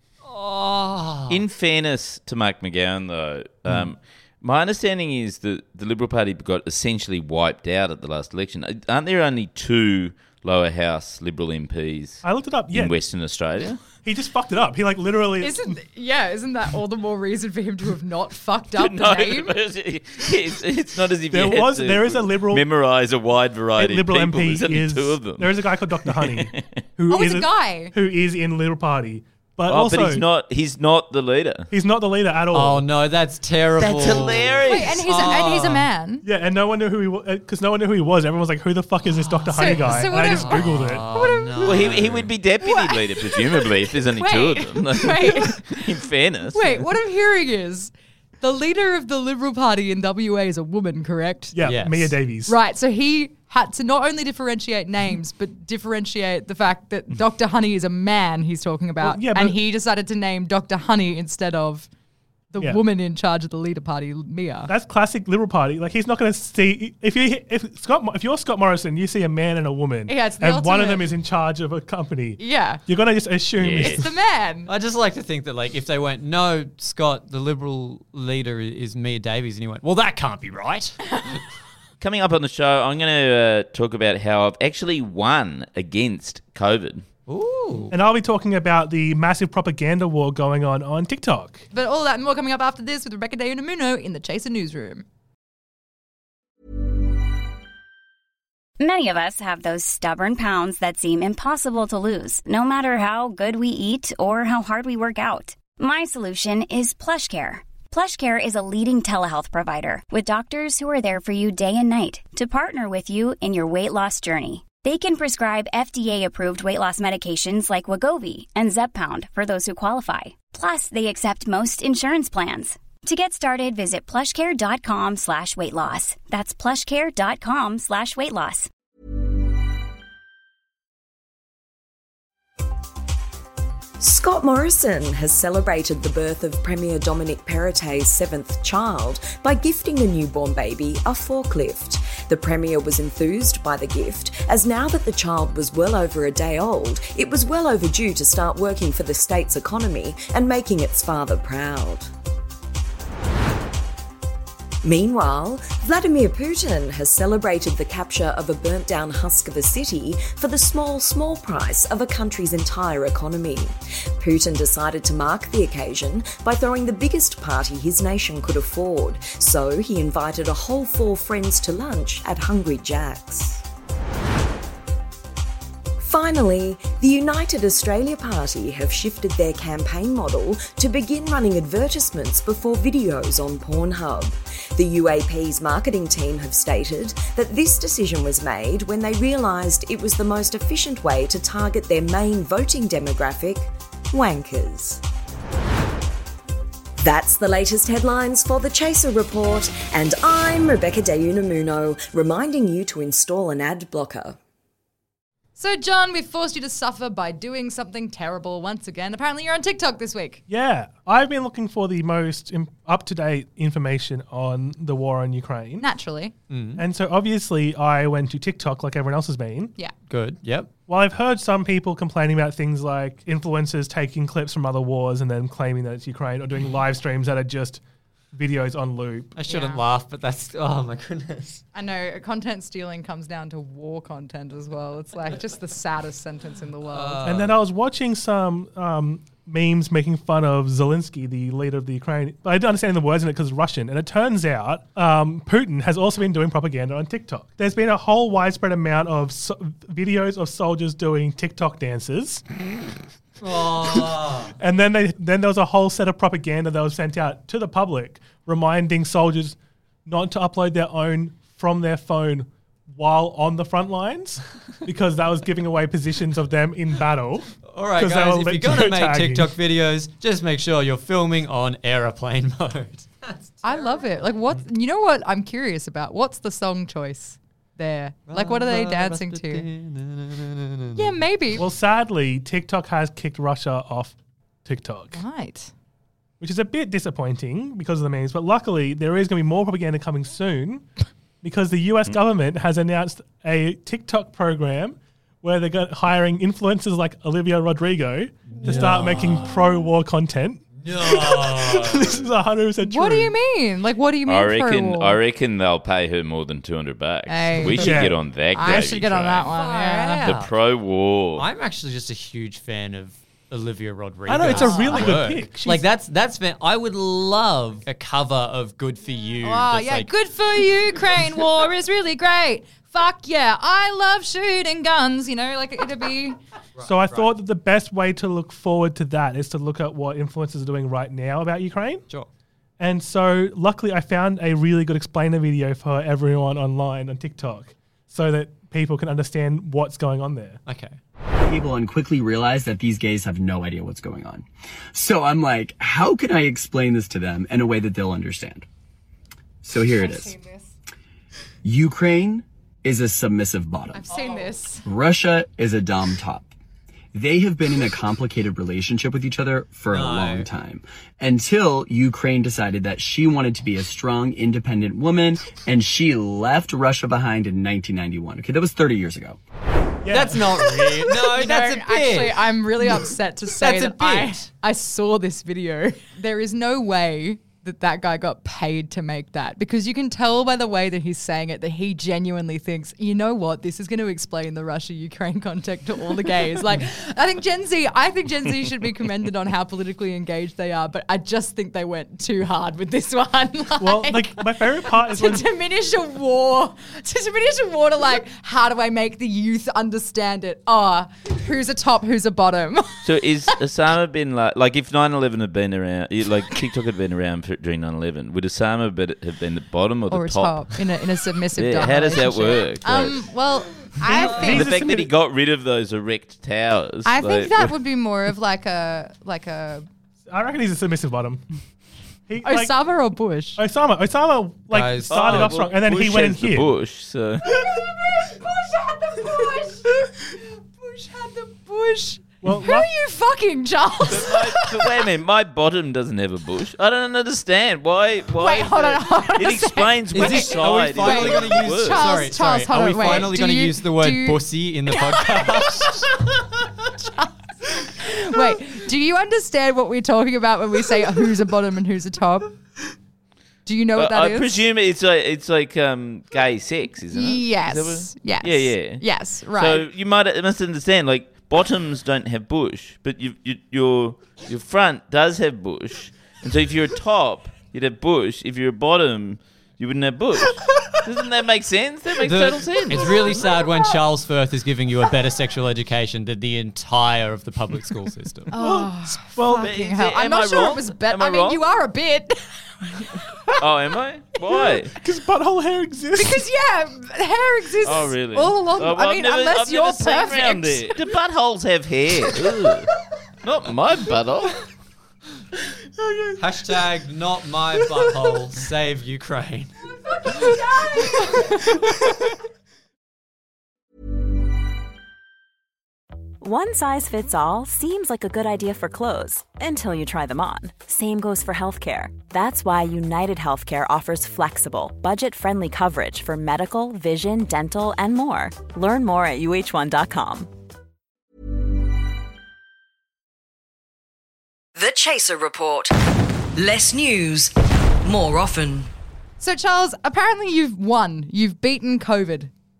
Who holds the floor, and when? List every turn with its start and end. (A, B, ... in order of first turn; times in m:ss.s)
0:00.2-0:01.4 A
0:01.3-0:13.8 B
0:12.2-0:12.9 C
0:14.0-0:15.8 C
0:15.4-0:19.5 D
0:18.8-0:26.6 B
0:21.3-0:22.6 C
0:23.7-0:30.2 C
0:27.1-0:27.9 D
0:29.7-0:31.7 B
0:31.7-0:32.9 C
0:32.5-0:35.9 A
0:33.8-0:35.5 B
0:34.6-0:36.2 D
0:36.2-0:41.0 C
0:39.3-0:42.3 A
0:39.5-0:41.9 D
0:41.6-0:46.8 B
0:42.6-0:45.8 D
0:46.5-0:51.6 D
0:51.5-0:52.6 C
0:51.6-0:52.1 A
0:52.4-1:01.9 D
0:59.0-0:59.6 C
1:02.5-1:04.7 D
1:04.7-1:14.1 C
1:10.1-1:11.1 D
1:12.4-1:12.8 D
1:13.6-1:14.0 B
1:13.8-1:14.7 D
1:14.6-1:21.2 A
1:22.0-1:27.0 B
1:27.3-1:27.9 A
1:27.9-1:31.6 C
1:31.7-1:35.0 D
1:38.8-2:08.7 E
2:14.0-2:32.1 F
2:34.8-2:53.6 F
2:56.0-3:15.0 F
3:17.0-3:24.4 F
3:25.6-3:30.4 D
3:30.5-3:35.9 C
3:35.8-3:36.3 D
3:36.5-3:36.8 A
3:36.8-3:39.7 C
3:40.1-3:40.7 A
3:40.9-3:47.8 C
3:48.3-3:49.3 C
3:49.4-3:51.6 A
3:49.4-3:49.8 D
3:51.7-3:57.2 D
3:56.8-3:57.5 A
3:57.2-4:12.4 C
4:13.4-4:14.5 A
4:13.7-4:29.6 C
4:27.6-4:33.7 A
4:33.6-4:39.7 D
4:38.3-4:41.1 A
4:41.0-4:41.6 D
4:41.6-4:45.2 C
4:45.1-4:45.7 D
4:46.4-4:50.8 C
4:51.4-5:03.3 C
4:58.5-4:59.5 A
5:00.8-5:02.2 A
5:02.8-5:05.2 D
5:04.2-5:09.5 B
5:07.3-5:10.3 D
5:07.8-5:08.2 C
5:09.5-5:10.5 A
5:10.2-5:11.4 B
5:11.4-5:20.1 A
5:14.2-5:15.9 C
5:14.4-5:15.1 D
5:19.4-5:26.4 D
5:26.8-5:27.3 A
5:26.8-5:32.0 C
5:32.8-5:40.6 C
5:40.6-5:41.0 A
5:41.4-5:48.6 G
5:49.6-5:50.3 G
5:49.9-5:50.7 D
5:51.6-5:54.0 G
5:53.9-5:54.8 D
5:54.8-5:56.5 G
5:57.1-6:09.4 G
5:59.9-6:00.5 A
6:10.0-6:10.9 C
6:10.1-6:12.9 A
6:11.2-6:43.1 D
6:13.6-6:14.5 A
6:33.8-6:35.5 C
6:43.0-6:50.7 B
6:50.1-6:54.7 D
6:51.6-6:53.3 B
6:54.0-6:55.1 C
6:54.1-6:57.8 B
6:57.0-6:59.8 D
7:00.3-7:01.4 C
7:02.3-7:02.8 C
7:02.4-7:03.6 D
7:03.6-7:06.7 C
7:04.7-7:05.6 A
7:05.1-7:07.4 B
7:07.6-7:14.5 D
7:12.4-7:12.9 C
7:14.0-7:22.1 B
7:18.3-7:26.0 D
7:20.1-7:26.1 A
7:27.0-7:32.5 D
7:33.6-7:34.7 D
7:34.0-7:53.4 B
7:37.1-7:39.9 D
7:52.2-7:58.5 A
7:53.2-7:54.0 D
7:58.5-8:03.6 D
7:58.5-7:59.7 C
7:59.6-8:01.6 B
8:03.6-8:04.9 B
8:04.9-8:06.5 C
8:06.2-8:10.9 D
8:07.8-8:12.9 B
8:13.4-8:14.6 B
8:16.0-8:16.8 C
8:16.4-8:19.7 A
8:20.1-8:21.4 D
8:26.4-8:40.5 H
8:44.8-8:45.9 I
8:46.6-8:47.5 I
8:48.0-8:48.9 I
8:49.4-8:52.5 D